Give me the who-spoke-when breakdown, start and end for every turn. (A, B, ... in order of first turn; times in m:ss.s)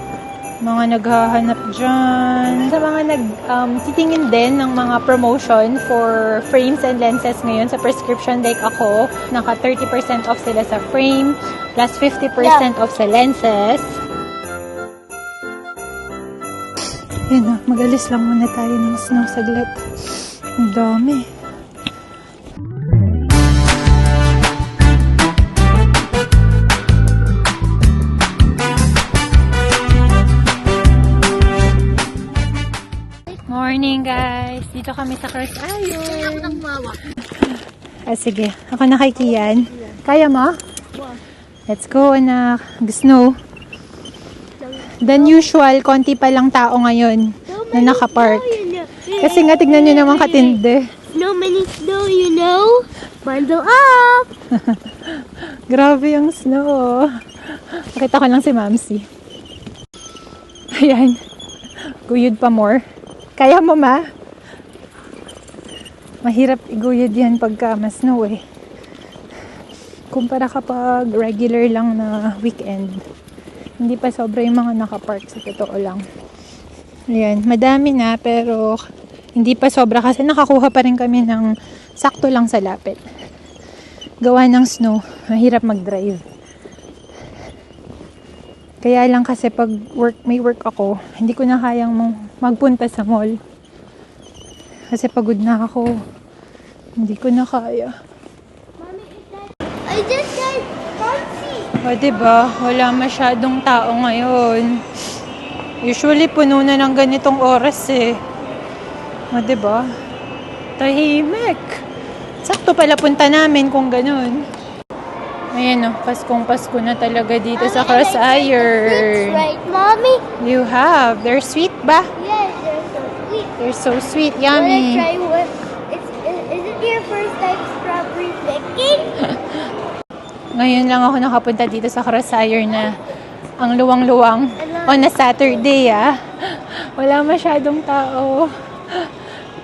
0:00.6-0:14.0 A
0:12.4-0:12.7 B
0:17.3-0:19.8 A
0:20.6-0:21.3 A
0:33.5-0:36.6 A
0:36.0-0:37.0 B
0:38.1-0:40.6 A
0:39.2-0:40.0 B
0:40.9-0:41.2 B
0:41.7-0:43.4 A
0:44.6-0:45.5 B
0:45.0-0:48.6 A
0:47.5-0:50.6 B
0:49.2-0:50.9 A
0:51.1-0:54.3 B
0:54.5-0:59.1 A
1:00.8-1:01.2 A
1:01.9-1:02.8 A
1:03.4-1:04.0 A
1:06.2-1:08.4 A
1:10.1-1:13.0 A
1:13.8-1:16.0 A
1:17.1-1:18.8 A
1:19.4-1:21.5 A
1:22.0-1:23.0 A
1:24.2-1:26.2 A
1:28.8-1:33.4 A
1:34.9-1:36.0 A
1:37.0-1:37.9 A
1:38.8-1:41.8 B
1:41.8-1:44.8 A
1:45.8-1:48.2 A
1:49.3-1:49.8 A
1:50.8-1:51.8 A
1:52.4-1:54.4 A
1:55.5-1:59.4 A
1:57.6-2:00.2 B
2:00.4-2:02.1 A
2:02.2-2:03.7 B
2:03.6-2:05.1 A
2:04.5-2:09.2 B
2:10.5-2:13.0 A
2:13.6-2:19.1 A
2:14.6-2:15.1 B